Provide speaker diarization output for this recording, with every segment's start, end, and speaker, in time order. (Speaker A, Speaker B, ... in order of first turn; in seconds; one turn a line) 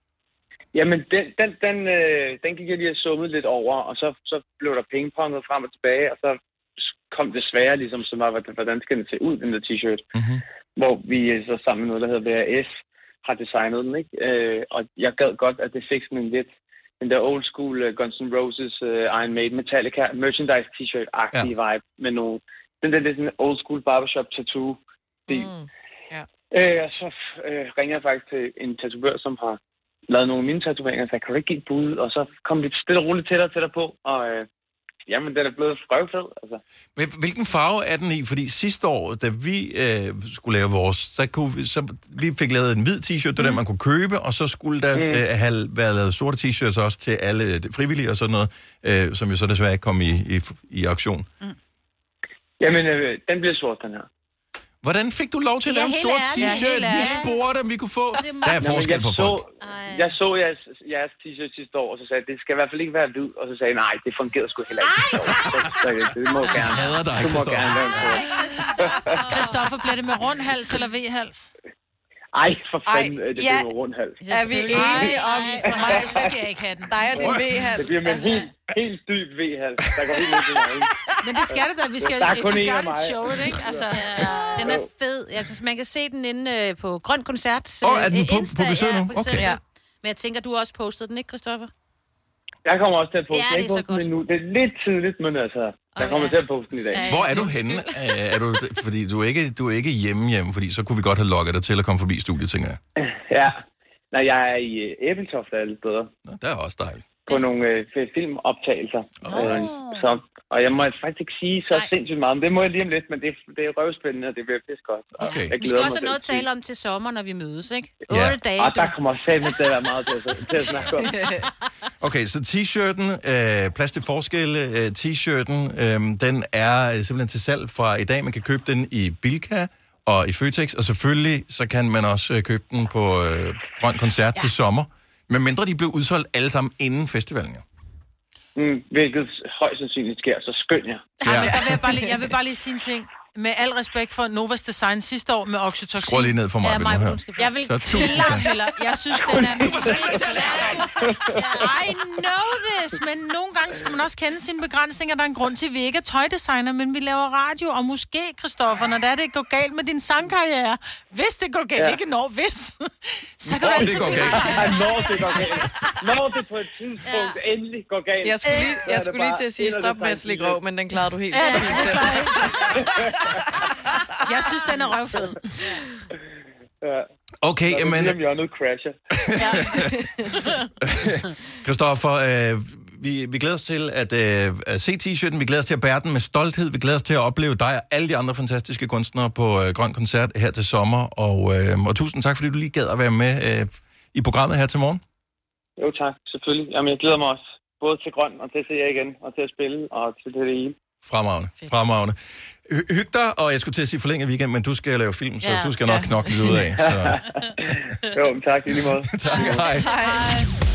Speaker A: 0.7-10.0
Speaker B: 10.1-10.4
Speaker A: 10.8-12.7
Speaker A: 13.2-16.5
Speaker A: 17.0-25.5
Speaker C: 25.3-26.3
Speaker A: 26.5-34.5
Speaker A: 35.1-36.6
Speaker B: 37.0-51.3
Speaker A: 44.9-45.2
Speaker A: 52.6-54.1
Speaker B: 54.8-59.4
Speaker D: 55.6-57.4
Speaker C: 56.4-57.1
Speaker D: 58.2-58.9
Speaker A: 58.6-69.2
Speaker D: 59.6-60.1
Speaker D: 64.8-65.6
Speaker D: 66.4-66.8
Speaker B: 66.6-68.0
Speaker D: 68.0-69.6
Speaker E: 69.3-71.5
Speaker A: 72.3-74.2
Speaker C: 72.9-73.7
Speaker D: 74.2-76.2
Speaker C: 74.2-76.0
Speaker E: 74.6-77.3
Speaker C: 76.9-78.4
Speaker A: 77.3-80.9
Speaker D: 78.1-78.5
Speaker E: 81.2-84.7
Speaker A: 82.0-83.9
Speaker D: 83.9-91.7
Speaker B: 87.8-89.5
Speaker A: 92.6-97.1
Speaker D: 93.3-94.1
Speaker D: 95.9-98.3
Speaker B: 97.0-102.8
Speaker A: 103.0-103.6
Speaker A: 104.1-106.1
Speaker B: 106.2-107.1
Speaker A: 107.2-116.5
Speaker B: 109.2-109.8
Speaker D: 109.3-110.1
Speaker B: 115.2-115.5
Speaker D: 115.2-119.0
Speaker B: 118.1-118.4
Speaker A: 118.5-121.2
Speaker C: 121.0-121.5
Speaker B: 122.0-137.6
Speaker A: 138.6-141.2
Speaker B: 141.2-141.6
Speaker E: 141.2-146.3
Speaker C: 141.3-142.1
Speaker B: 146.0-148.4
Speaker D: 146.6-148.3
Speaker E: 147.4-150.8
Speaker A: 149.6-151.6
Speaker D: 149.7-152.0
Speaker E: 151.5-165.6
Speaker A: 163.7-170.6
Speaker B: 163.7-164.6
Speaker D: 163.9-165.4
Speaker D: 167.1-167.4
Speaker C: 168.2-172.7
Speaker D: 171.3-172.8
Speaker E: 171.3-172.5
Speaker A: 172.7-173.2
Speaker C: 173.4-174.0
Speaker E: 174.2-175.6
Speaker B: 177.4-178.2
Speaker A: 177.7-178.9
Speaker B: 179.3-179.9
Speaker C: 179.7-180.5
Speaker B: 180.8-195.0
Speaker A: 195.8-200.8
Speaker B: 201.0-207.2
Speaker D: 205.4-206.1
Speaker A: 206.6-209.7
Speaker B: 209.1-209.9
Speaker D: 209.2-210.4
Speaker C: 209.8-210.4